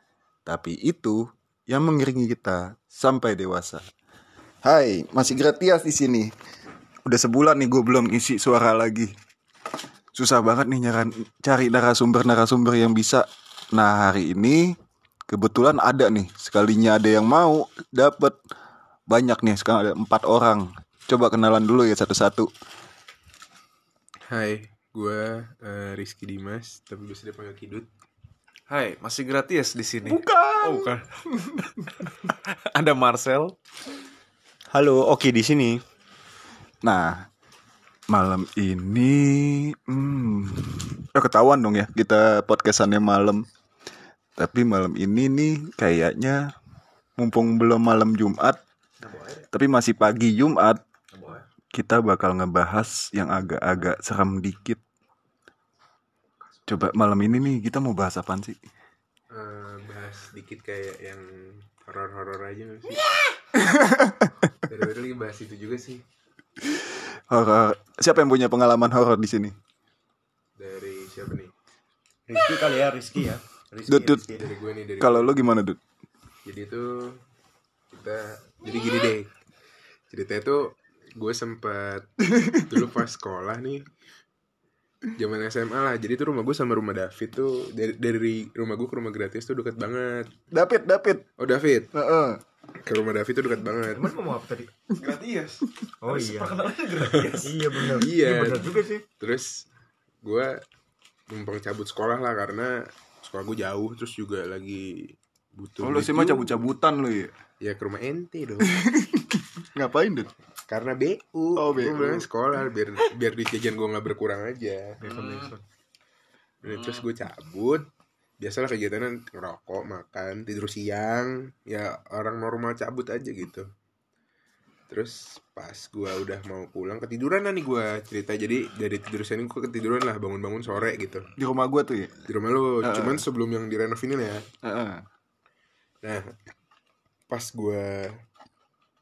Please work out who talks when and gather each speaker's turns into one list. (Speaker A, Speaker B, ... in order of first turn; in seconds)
Speaker A: 0.5-3.8, 4.6-6.3, 7.1-9.1, 10.2-14.6, 15.3-18.4, 19.1-22.5, 30.1-31.0, 36.8-37.3, 38.1-43.4, 44.4-46.4, 47.2-48.6, 49.5-50.8, 51.7-54.8, 56.7-58.6, 63.6-64.5, 66.6-69.5, 73.9-74.3, 75.0-75.8, 82.3-82.6, 90.5-91.2, 91.9-92.4, 105.8-107.3, 108.8-110.3, 111.6-112.3, 131.4-132.3, 132.8-133.2, 134.6-135.0
Speaker B: 24.3-27.9, 59.3-63.0, 64.7-66.0, 70.6-71.5, 74.3-75.3, 76.5-77.2, 77.9-79.3, 80.1-83.9, 85.2-90.3, 91.4-91.9, 92.8-94.1, 97.1-99.6, 100.2-100.6, 101.3-106.7, 107.6-108.8, 110.7-115.0, 116.6-117.9, 118.4-123.7, 124.9-131.3, 132.3-134.4, 137.3-138.1
Speaker C: 28.7-33.5, 51.1-51.4, 94.9-97.6, 115.0-115.6, 116.6-117.1
Speaker D: 34.7-35.8, 72.3-74.5, 93.9-94.7, 96.0-96.6, 97.2-99.0, 115.0-115.6